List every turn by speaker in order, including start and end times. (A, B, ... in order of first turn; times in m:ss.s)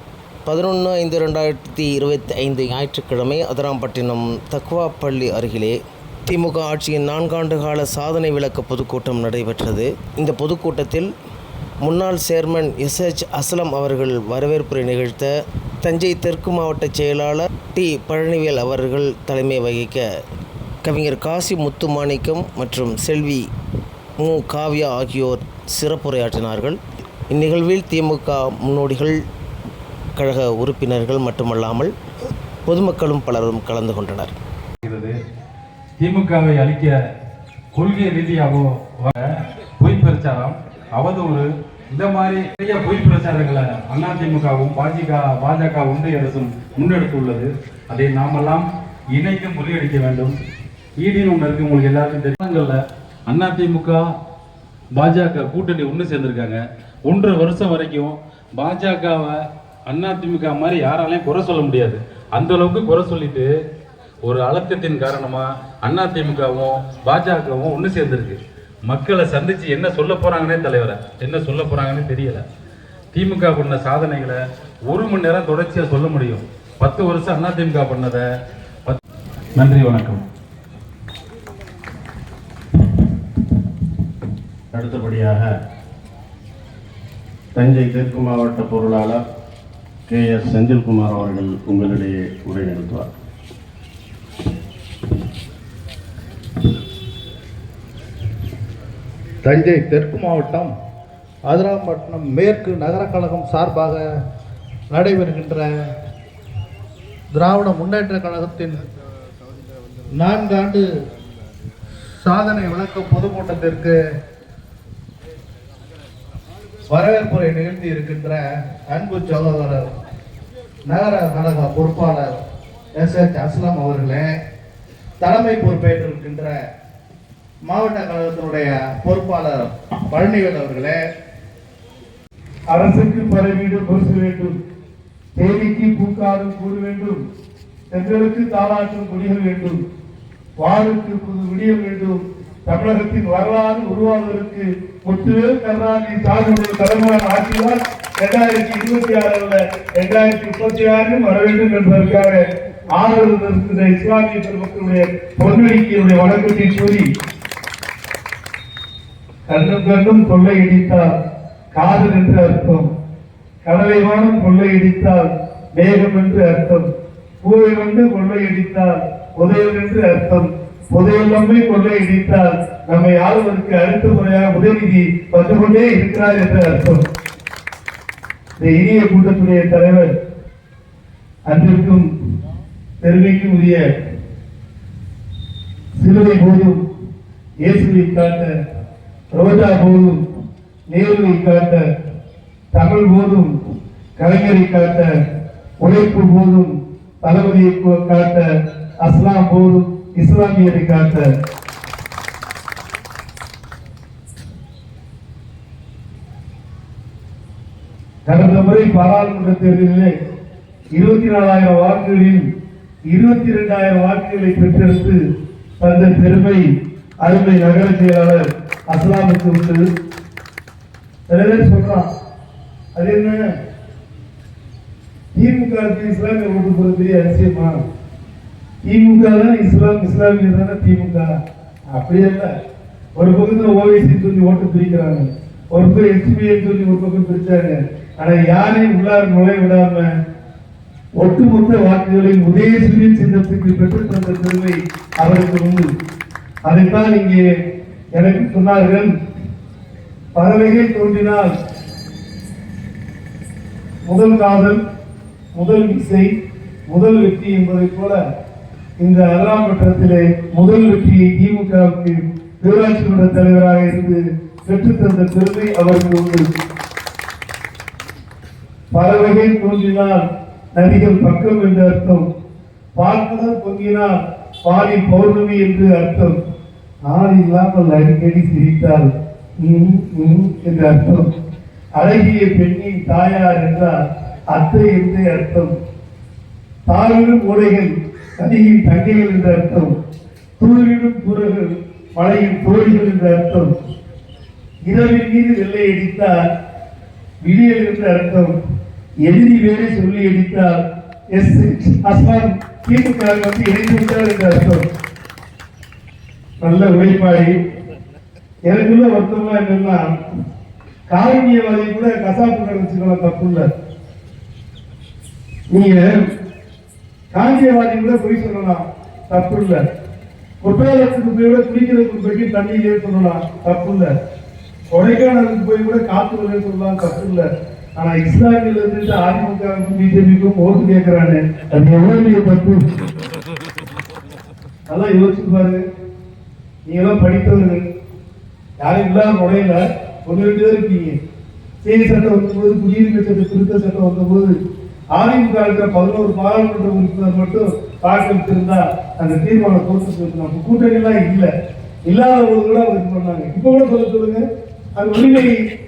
0:00.5-0:11.1 A
0:11.8-0:20.1 A
0:20.8-0:23.5 A
0:24.2-0:26.8 A
0:27.3-0:29.2 A
0:30.2-0:31.9 A
0:32.7-0:34.4 A
0:34.8-0:35.2 B
0:36.0-0:37.0 B
0:37.8-0:50.4 B
0:51.0-0:54.0 B
0:55.0-0:59.4 B
0:59.9-1:03.5 B
1:04.2-1:12.4 B
1:13.1-1:14.4 B
1:14.9-1:18.2 B
1:19.6-1:20.2 B
1:24.7-1:25.5 C
1:27.6-1:29.2 C
1:30.1-1:33.1 C
1:39.4-1:40.7 D
1:41.5-1:44.0 D
1:44.9-1:45.7 D
1:47.3-1:48.8 D
1:50.2-1:50.8 D
1:52.3-1:52.8 C
1:52.3-1:53.8 D
1:53.6-1:53.9 C
1:56.9-1:58.4 D
1:57.1-1:58.4 C
1:58.9-1:59.8 D
1:59.1-1:59.8 C
2:00.9-2:02.3 D
2:01.1-2:01.7 C
2:03.0-2:04.3 D
2:05.2-2:06.6 D
2:07.7-2:11.0 D
2:12.7-2:14.6 E
2:15.4-2:17.2 E
2:17.9-2:19.8 E
2:20.6-2:37.1 E
2:39.5-2:41.2 E
2:41.7-2:42.9 E
2:43.6-2:46.9 E
2:47.4-2:57.1 E
2:58.6-3:00.1 E
3:01.5-3:02.1 E
3:03.0-3:03.8 E
3:06.0-3:06.8 E
3:07.6-3:08.5 E
3:09.4-3:10.2 E
3:10.9-3:11.8 E
3:12.7-3:13.5 E
3:14.2-3:15.1 E
3:15.8-3:18.5 E
3:19.0-3:21.3 E
3:28.3-3:30.1 E
3:31.0-3:32.4 E
3:33.1-3:35.2 E
3:35.8-3:36.7 E
3:37.2-3:39.8 E
3:41.3-3:42.1 E
3:43.0-3:43.4 E
3:45.4-3:47.8 E
3:48.8-3:51.3 E
3:51.9-3:52.5 E
3:53.2-4:00.1 E
4:01.2-4:05.9 E
4:06.7-4:07.4 E
4:08.2-4:09.1 E
4:10.4-4:11.5 E
4:14.1-4:14.8 E
4:15.6-4:16.3 E
4:16.9-4:18.2 E
4:19.0-4:26.5 E
4:28.9-4:32.2 E
4:33.0-4:34.2 E
4:34.7-4:36.4 E
4:37.1-4:39.1 E
4:39.6-4:41.3 E
4:42.0-4:44.0 E
4:44.5-4:45.7 E
4:46.9-4:49.9 E
4:50.6-4:53.7 E
4:54.9-4:56.4 E
4:57.4-4:58.5 E
4:59.2-5:00.8 E
5:01.3-5:04.9 E
5:06.6-5:07.5 E
5:08.7-5:10.1 E
5:11.1-5:13.7 E
5:15.7-5:16.2 E
5:17.3-5:19.8 E
5:20.6-5:24.1 E
5:24.9-5:32.8 E
5:34.9-5:35.8 E
5:36.9-5:37.8 E
5:38.8-5:41.2 E
5:41.8-5:44.5 E
5:45.2-5:51.5 E
5:52.1-5:54.4 E
5:55.0-5:55.6 E